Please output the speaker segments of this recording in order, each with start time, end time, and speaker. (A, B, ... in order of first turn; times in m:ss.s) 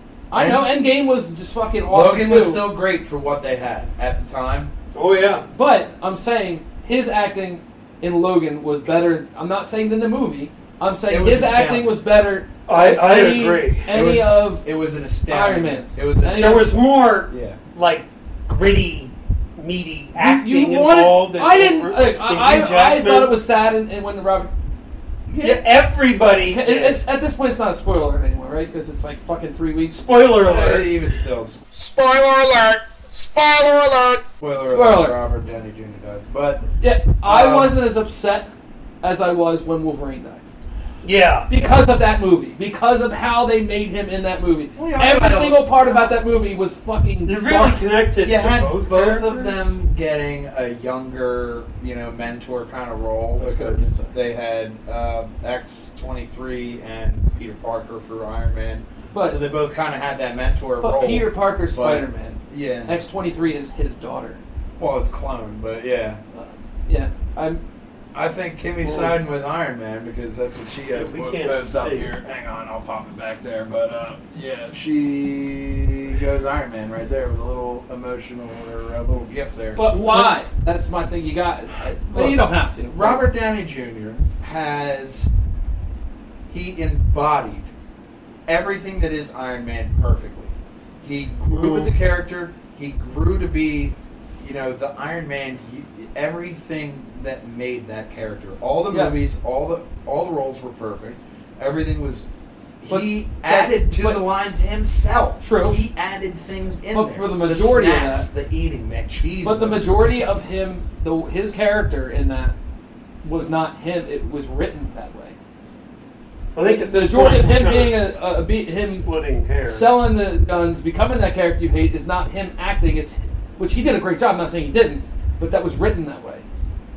0:00.3-0:02.6 A
0:00.3-0:00.7 B
0:01.9-0:04.7 B
0:04.9-0:05.5 C
0:05.5-0:14.7 A
0:11.1-0:12.0 B
0:12.7-0:13.9 C
0:13.9-0:16.8 B
0:15.3-0:16.7 A
0:16.3-0:23.3 C
0:17.3-0:17.6 B
0:20.2-0:24.5 A
0:25.3-0:25.6 B
0:25.4-0:27.0 C
0:26.4-0:30.0 A
0:29.9-0:31.0 C
0:30.4-0:37.8 B
0:34.7-0:35.2 A
0:36.8-0:38.5 A
0:39.0-0:40.4 A
0:41.0-0:41.5 C
0:41.5-0:47.8 A
0:44.8-0:46.2 B
0:47.2-0:49.7 C
0:48.2-1:03.0 B
0:53.4-0:54.1 A
0:59.1-0:59.4 A
1:00.8-1:04.4 A
1:04.8-1:06.2 B
1:06.3-1:07.6 A
1:08.1-1:20.4 B
1:08.8-1:09.2 C
1:10.9-1:12.1 C
1:19.8-1:23.2 A
1:22.1-1:25.3 B
1:26.5-1:27.7 B
1:28.5-1:42.3 B
1:31.5-1:31.9 C
1:38.9-1:39.2 A
1:42.8-1:49.9 B
1:42.9-1:44.2 A
1:45.4-1:45.8 A
1:46.9-1:48.3 A
1:49.4-1:52.6 A
1:53.2-1:55.4 A
1:56.6-1:58.1 C
1:56.6-1:59.0 A
1:58.8-2:00.0 C
1:59.6-2:06.4 A